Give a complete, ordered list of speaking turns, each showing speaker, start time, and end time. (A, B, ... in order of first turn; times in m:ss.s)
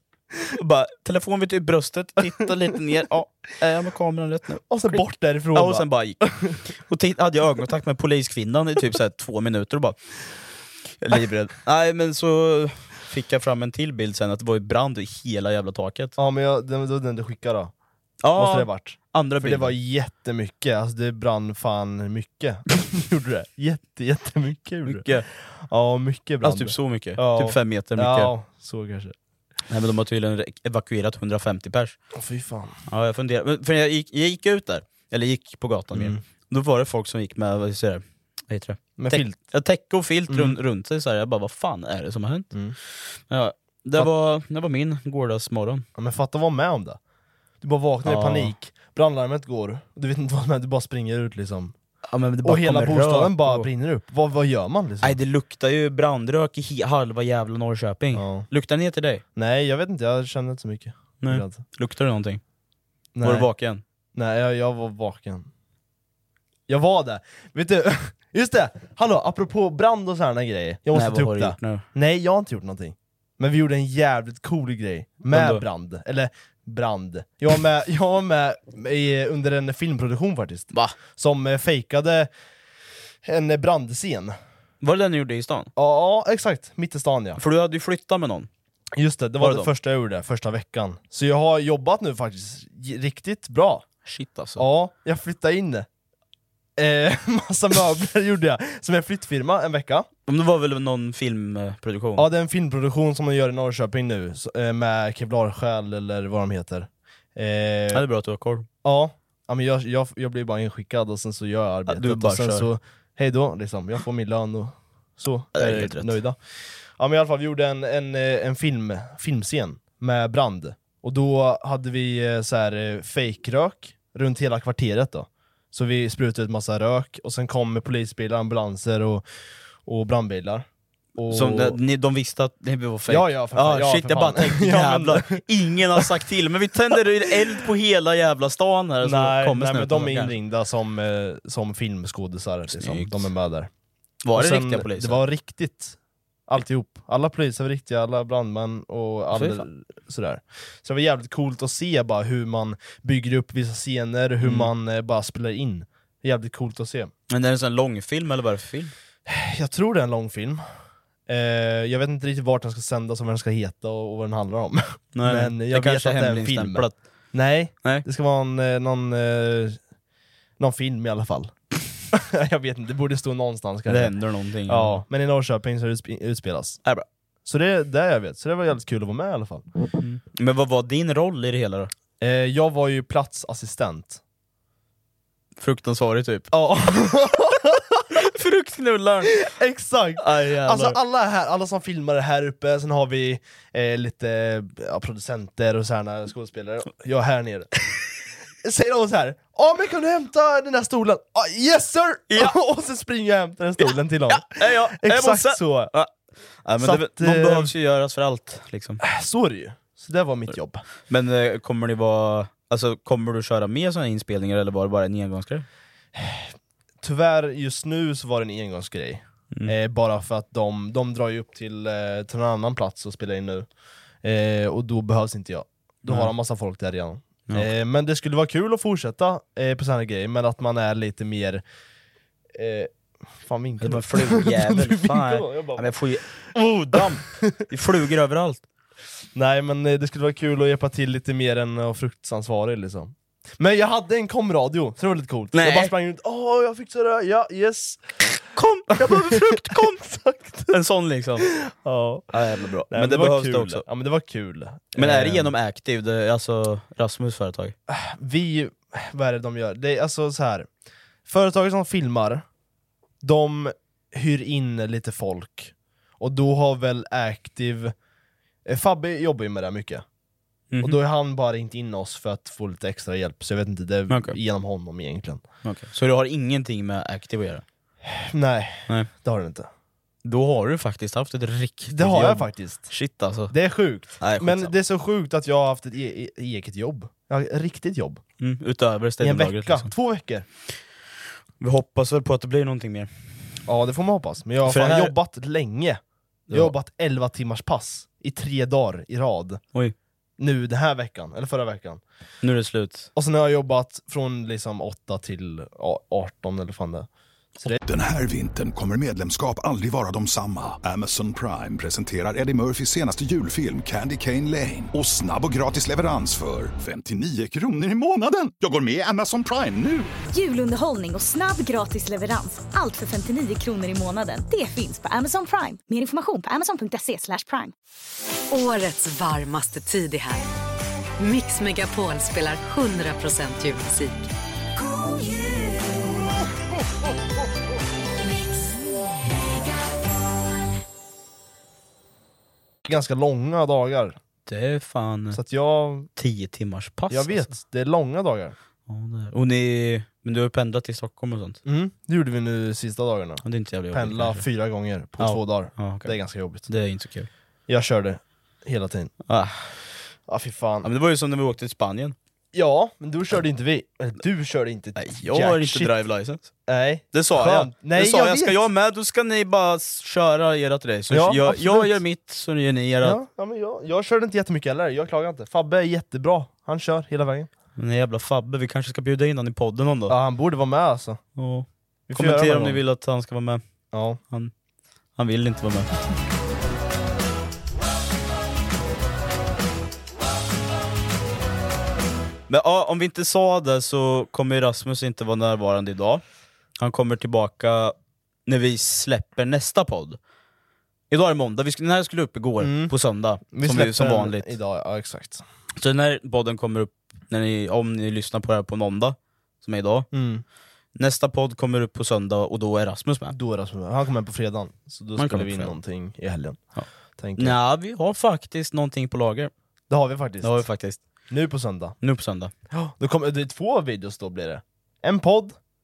0:00.5-0:05.0 A
0:04.7-0:06.6 B
0:05.5-0:06.2 A
0:06.8-0:10.0 A
0:11.0-0:16.2 A
0:16.2-0:17.7 B
0:18.2-0:19.8 A
0:18.4-0:29.2 B
0:24.8-0:25.3 A
0:26.4-0:28.3 A
0:29.7-0:32.0 A
0:32.1-0:32.8 B
0:32.9-0:42.5 A
0:35.9-0:36.2 B
0:39.0-0:39.4 B
0:40.3-0:40.6 B
0:43.3-0:45.8 A
0:46.0-0:47.0 B
0:47.6-0:51.8 B
0:48.0-0:48.5 A
0:52.1-0:53.7 A
0:52.4-0:55.2 B
0:55.0-0:59.2 A
0:58.1-0:58.5 B
0:59.4-1:01.6 B
1:01.2-1:02.4 A
1:03.2-1:03.5 B
1:03.2-1:03.8 A
1:04.2-1:05.5 B
1:06.7-1:22.3 B
1:10.9-1:11.8 A
1:15.3-1:15.6 A
1:23.2-1:24.4 B
1:24.8-1:25.7 A
1:25.8-1:27.4 B
1:27.4-1:28.5 A
1:29.0-1:33.8 B
1:29.4-1:29.7 A
1:34.0-1:34.7 A
1:34.6-1:35.9 B
1:36.8-1:40.1 B
1:40.3-1:42.3 A
1:42.2-1:48.0 B
1:47.9-1:48.7 A
1:48.8-2:09.2 B
1:51.9-1:52.7 A
1:55.6-1:56.2 A
2:09.8-2:11.8 B
2:11.3-2:20.3 A
2:13.1-2:15.4 B
2:19.0-2:23.7 B
2:22.7-2:23.3 A
2:24.2-2:25.2 A
2:24.4-2:37.1 B
2:29.3-2:29.7 A
2:34.4-2:34.7 A
2:37.3-2:38.9 A
2:39.3-2:40.6 B
2:41.3-2:49.8 B
2:45.2-2:47.0 A
2:50.6-2:51.6 B
2:52.1-2:54.2 B
2:53.9-2:55.0 A
2:54.7-2:56.8 B
2:57.4-2:59.7 B
3:00.0-3:01.9 A
3:02.2-3:04.2 B
3:05.6-3:06.5 A
3:06.5-3:08.2 B
3:08.1-3:09.4 A
3:09.2-3:18.0 B
3:10.2-3:11.0 A
3:18.6-3:25.9 B
3:22.3-3:22.6 A
3:23.8-3:26.1 A
3:26.6-3:29.0 A
3:26.8-3:27.7 B
3:29.0-3:30.8 B
3:31.1-3:35.7 A
3:36.2-3:43.7 B
3:44.2-3:51.6 B
3:46.1-3:46.3 A
3:52.5-3:55.9 B
3:53.8-3:58.6 A
3:56.9-3:57.6 B
3:59.3-4:08.1 B
4:05.5-4:05.9 A
4:08.6-4:10.0 A
4:08.9-4:10.7 B
4:10.7-4:11.5 A
4:11.5-4:12.3 B
4:12.3-4:13.8 A
4:12.9-4:15.5 B
4:15.0-4:17.8 A
4:17.9-4:20.7 B
4:21.3-4:22.4 B
4:23.2-4:27.9 B
4:28.7-4:30.0 B
4:30.7-4:31.0 A
4:30.8-4:35.4 B
4:34.1-4:34.4 A
4:35.6-4:37.6 A
4:38.0-4:39.7 B
4:40.2-4:43.5 A
4:41.9-4:42.9 B
4:43.5-4:48.2 B
4:44.2-4:44.7 A
4:48.4-4:49.9 A
4:49.2-4:50.4 B
4:51.6-4:53.1 A
4:53.7-4:59.6 B
4:54.6-4:55.1 A
4:56.5-4:56.7 A
5:00.4-5:02.0 B
5:02.4-5:03.1 A
5:03.2-5:07.8 B
5:07.8-5:20.1 C
5:20.3-5:27.7 D
5:28.5-5:30.5 E
5:31.2-5:34.3 E
5:42.8-5:44.2 B
5:44.5-5:45.4 A
5:45.3-5:46.1 B
5:46.2-5:47.5 A
5:47.1-5:48.6 B
5:48.9-5:51.6 A
5:51.6-5:56.7 B
5:53.4-5:54.4 A
5:55.2-5:57.3 A
5:57.7-5:59.1 B
5:59.3-5:59.7 A
6:00.3-6:00.9 B
6:00.8-6:02.2 A
6:02.5-6:05.9 B
6:05.0-6:06.5 A
6:06.7-6:08.6 B
6:07.1-6:13.2 A
6:11.1-6:12.0 B
6:13.0-6:17.5 B
6:17.8-6:20.2 A
6:20.1-6:21.2 B
6:21.4-6:23.6 A
6:22.1-6:22.8 B
6:23.9-6:24.2 B
6:25.2-6:25.9 A
6:32.5-6:36.2 A
6:36.8-6:38.0 A
6:38.5-6:40.2 A
6:41.1-6:44.5 A
6:42.6-6:42.9 B
6:43.5-6:45.4 B
6:45.8-6:50.1 A
6:50.1-6:50.4 B
6:51.0-6:53.4 A
6:53.3-6:56.6 B
6:55.2-6:55.7 A
6:57.2-6:57.6 B
6:57.4-6:59.5 A
6:59.9-7:00.6 B
7:00.4-7:01.0 A
7:01.3-7:02.0 B
7:02.0-7:02.5 A
7:02.7-7:05.6 B